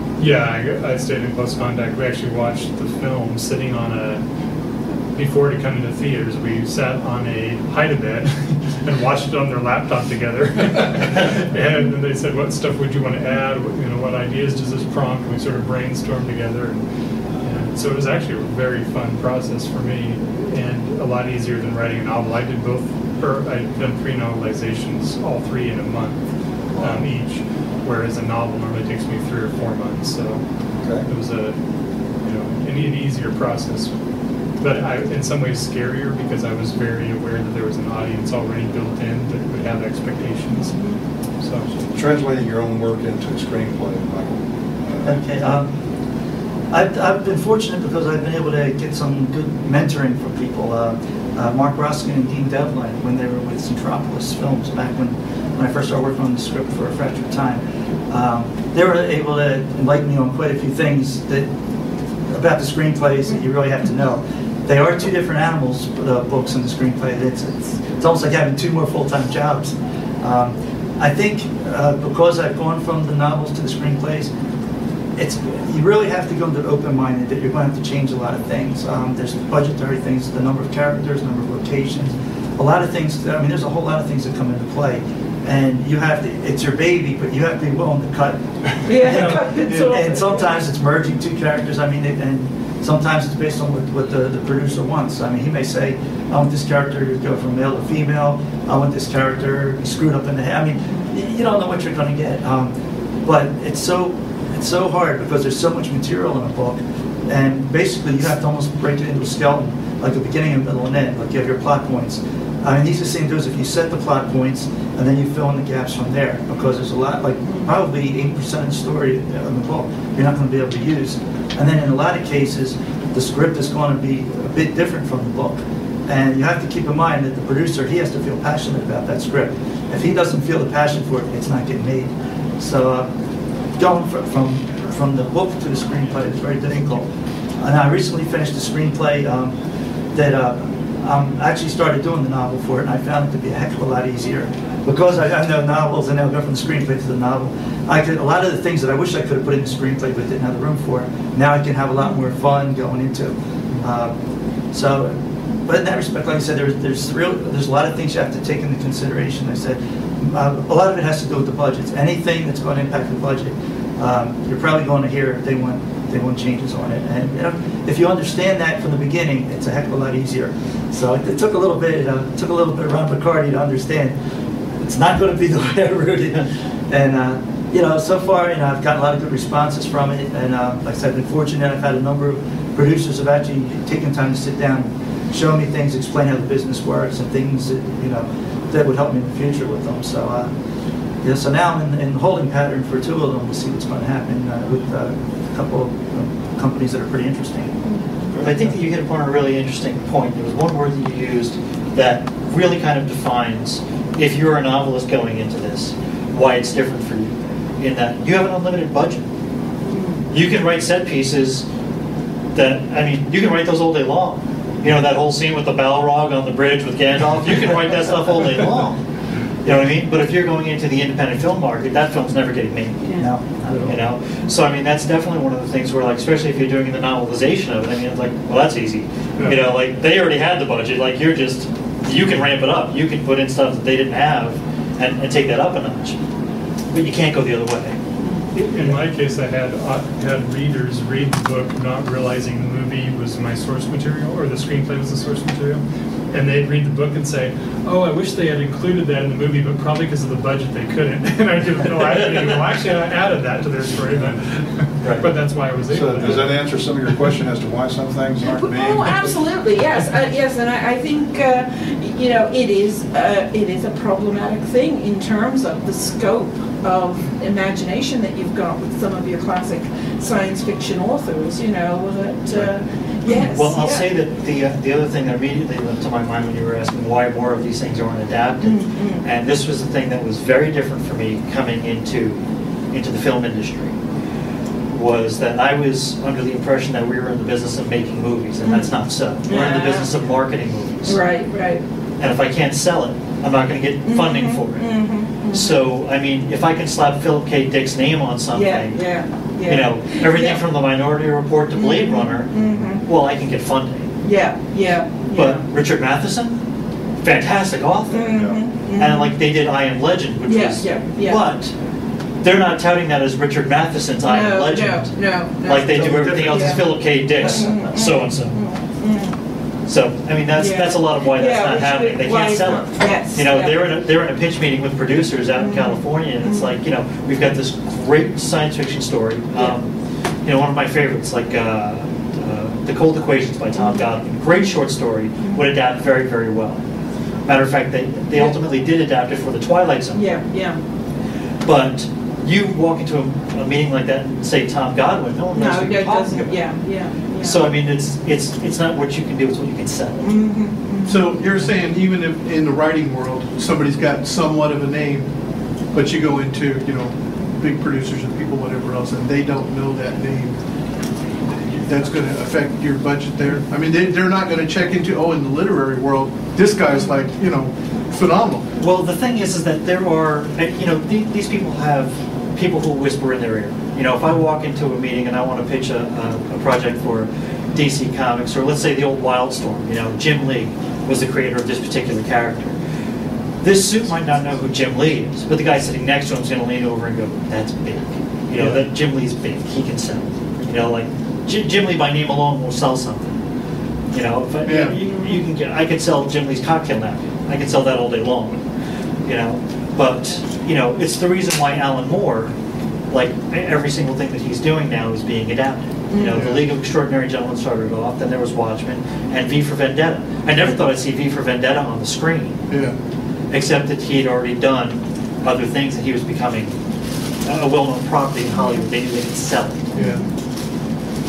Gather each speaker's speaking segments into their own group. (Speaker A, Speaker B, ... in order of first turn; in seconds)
Speaker A: 0.2-4.2, 5.2-16.8, 17.4-26.2, 26.8-30.4, 31.1-31.6, 32.2-33.9, 34.6-40.8, 41.4-41.7, 238.6-256.5
Speaker B: 26.7-27.1, 41.7-45.2, 198.3-198.7, 255.9-259.3, 308.3-308.6
Speaker C: 40.5-41.0, 88.8-90.5, 100.8-101.1, 117.4-117.7, 197.9-198.2, 209.9-210.2, 223.0-223.3, 258.4-274.1, 278.6-279.2, 288.6-288.9, 289.4-290.1, 291.1-291.8, 294.1-295.8, 298.5-300.6, 301.7-303.0, 304.2-305.6, 308.1-309.4, 310.5-311.4, 314.2-319.3, 320.5-323.9, 325.5-326.7, 333.7-334.1, 335.4-335.7, 340.1-340.8, 345.5-347.6, 350.2-351.4, 395.0-395.4, 406.1-406.5, 419.9-420.3
Speaker D: 45.0-45.7, 46.7-61.5, 62.3-74.3, 75.2-102.7, 103.2-133.1, 133.8-137.1, 137.6-139.5, 140.2-154.1, 154.7-174.2, 174.8-190.5, 191.2-197.7, 223.2-224.0
Speaker E: 198.4-209.2, 210.3-211.7, 212.6-219.0, 219.7-223.0, 223.8-236.2, 236.9-238.0, 273.3-282.4, 282.9-283.9, 284.9-291.2, 292.2-294.9, 295.5-299.0, 299.7-302.5, 303.0-304.1, 305.3-306.6, 307.2-311.7, 312.4-318.6, 319.9-329.9, 330.4-336.8, 337.5-340.2, 341.6-346.6, 347.4-350.3, 368.8-382.8, 383.6-393.4, 394.1-398.6, 399.2-402.5, 403.1-412.6, 413.5-416.8, 417.4-419.9
Speaker F: 315.9-317.1, 351.1-355.3, 355.9-360.6, 361.7-368.7, 388.6-388.8, 394.6-395.0, 406.3-406.6, 412.7-412.9, 420.0-420.2